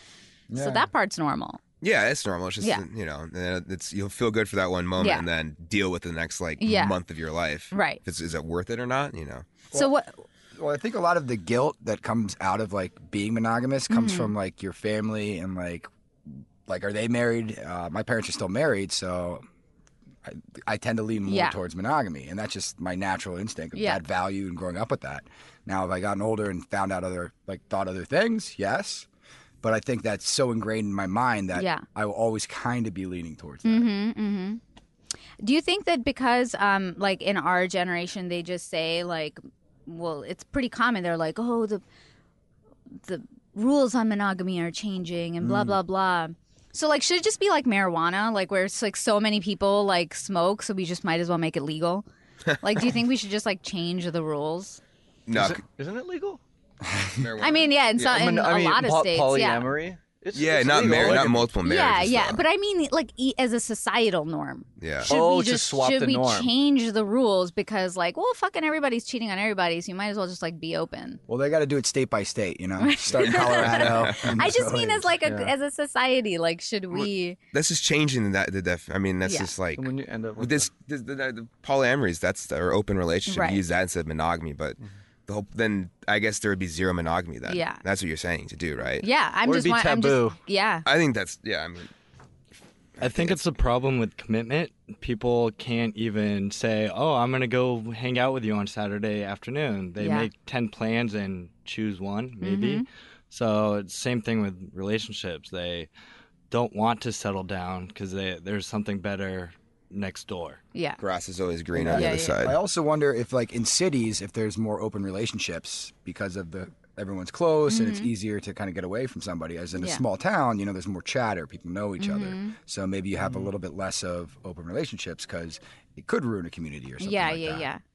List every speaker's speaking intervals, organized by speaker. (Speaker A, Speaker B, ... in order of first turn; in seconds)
Speaker A: 0.5-0.9, 10.5-19.4, 20.2-29.1, 29.6-33.9, 45.4-45.8, 56.8-57.3, 71.3-75.1, 111.7-127.7
Speaker B: 0.5-1.6, 5.0-5.2, 6.6-7.0, 7.7-8.0, 9.7-10.2, 13.9-14.3, 21.3-21.6, 23.7-24.0, 31.5-31.8, 33.6-34.6, 35.4-41.8, 43.0-52.0, 52.6-54.8, 57.4-59.7, 61.6-71.2, 72.8-77.4, 79.2-79.5, 83.3-83.6, 87.5-87.8, 89.0-90.8, 100.0-100.3, 102.4-102.8, 111.9-112.4, 117.7-118.1, 119.8-120.0, 122.0-122.5, 127.0-127.8
Speaker C: 1.8-9.4, 55.3-55.6, 57.2-58.3, 60.3-62.4, 64.8-65.1, 73.6-74.3, 77.5-89.1, 90.8-91.9, 93.0-93.4, 111.0-112.6
Speaker D: 55.3-56.4, 58.0-61.5, 65.0-66.5, 73.7-74.2, 75.2-75.5, 79.8-80.7, 89.4-90.4, 123.2-123.5
Speaker E: 93.0-105.9, 106.5-110.6